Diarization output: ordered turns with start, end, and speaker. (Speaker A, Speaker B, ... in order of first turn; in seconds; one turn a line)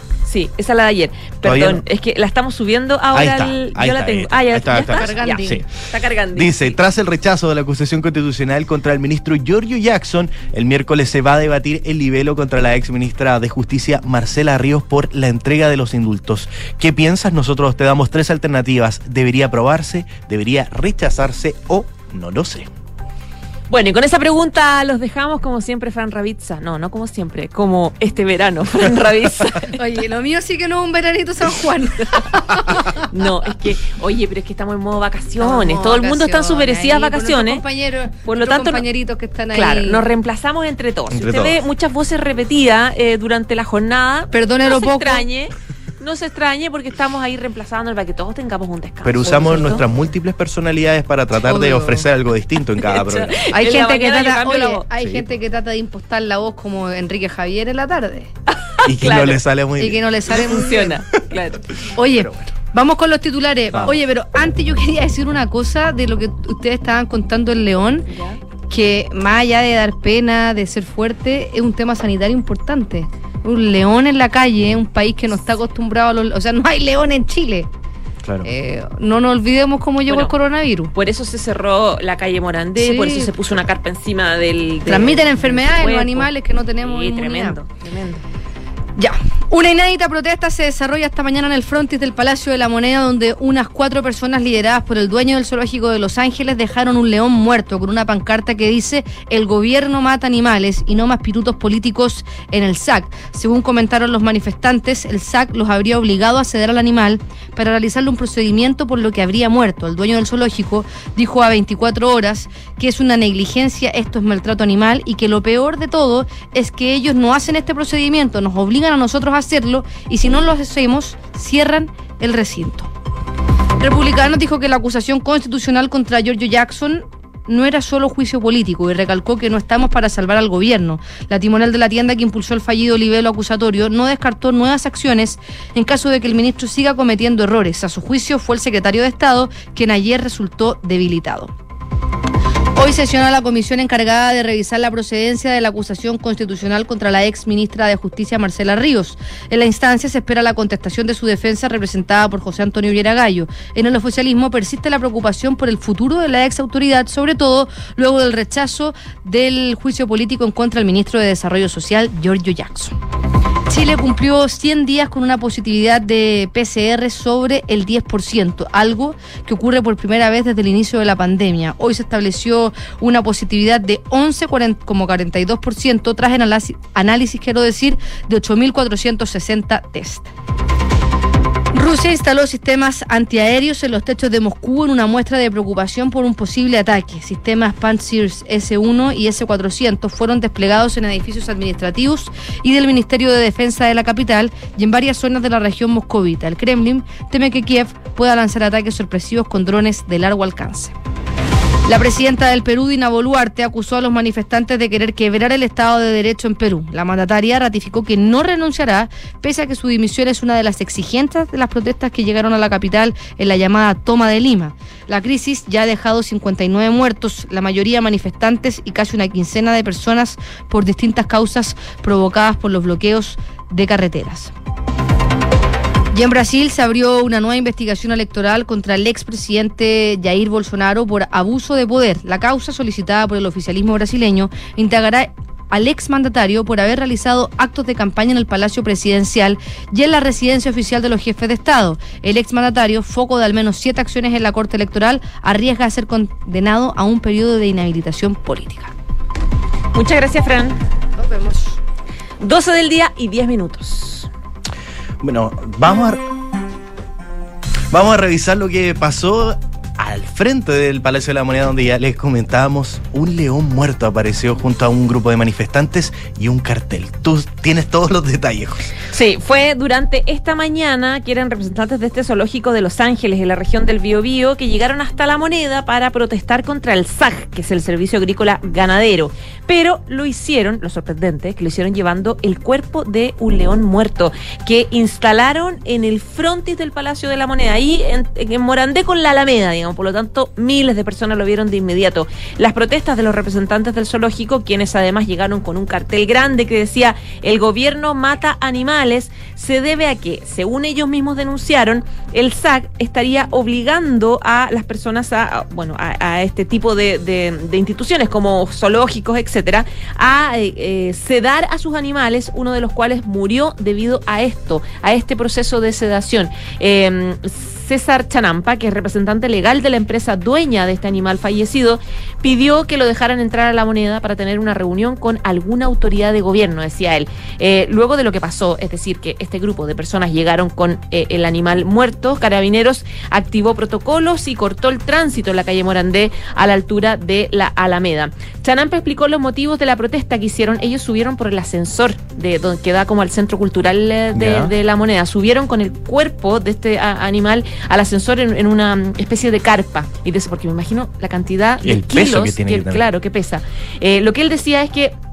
Speaker A: 0.3-6.8
Speaker B: 1.4-1.8
Speaker B: 3.1-5.6
Speaker C: 4.8-5.6
Speaker B: 6.3-22.7
Speaker A: 23.7-29.8
Speaker C: 29.8-33.0
Speaker A: 32.7-37.6
Speaker C: 35.4-40.0
Speaker A: 38.2-38.8
Speaker A: 39.5-49.8
Speaker B: 41.1-41.6
Speaker C: 44.3-45.2
Speaker B: 49.0-53.3
Speaker C: 51.5-52.0
Speaker A: 52.8-54.8
Speaker C: 53.5-58.3
Speaker B: 55.0-55.3
Speaker A: 58.5-59.4
Speaker B: 58.8-60.0
Speaker C: 59.8-61.0
Speaker A: 60.3-61.7
Speaker C: 62.0-68.0
Speaker B: 62.1-62.5
Speaker B: 63.7-64.0
Speaker A: 68.1-68.4
Speaker C: 68.7-77.7
Speaker B: 78.2-78.5
Speaker C: 78.4-80.9
Speaker A: 80.1-80.3
Speaker A: 80.9-86.3
Speaker C: 82.8-83.3
Speaker C: 84.8-87.6
Speaker A: 86.8-88.2
Speaker C: 89.0-122.9
Speaker C: 123.8-141.5
Speaker C: 142.8-162.9
Speaker C: 163.7-180.3
Speaker C: 181.7-200.9
Speaker C: 201.9-224.5
Speaker C: 226.1-248.9
Speaker A: 249.9-250.8
Speaker C: 251.2-251.8
Speaker A: 252.4-254.3
Speaker B: 255.2-256.2
Speaker B: 257.9-268.9
Speaker A: 269.1-355.1
Speaker B: 344.3-344.7
Speaker B: 351.8-353.0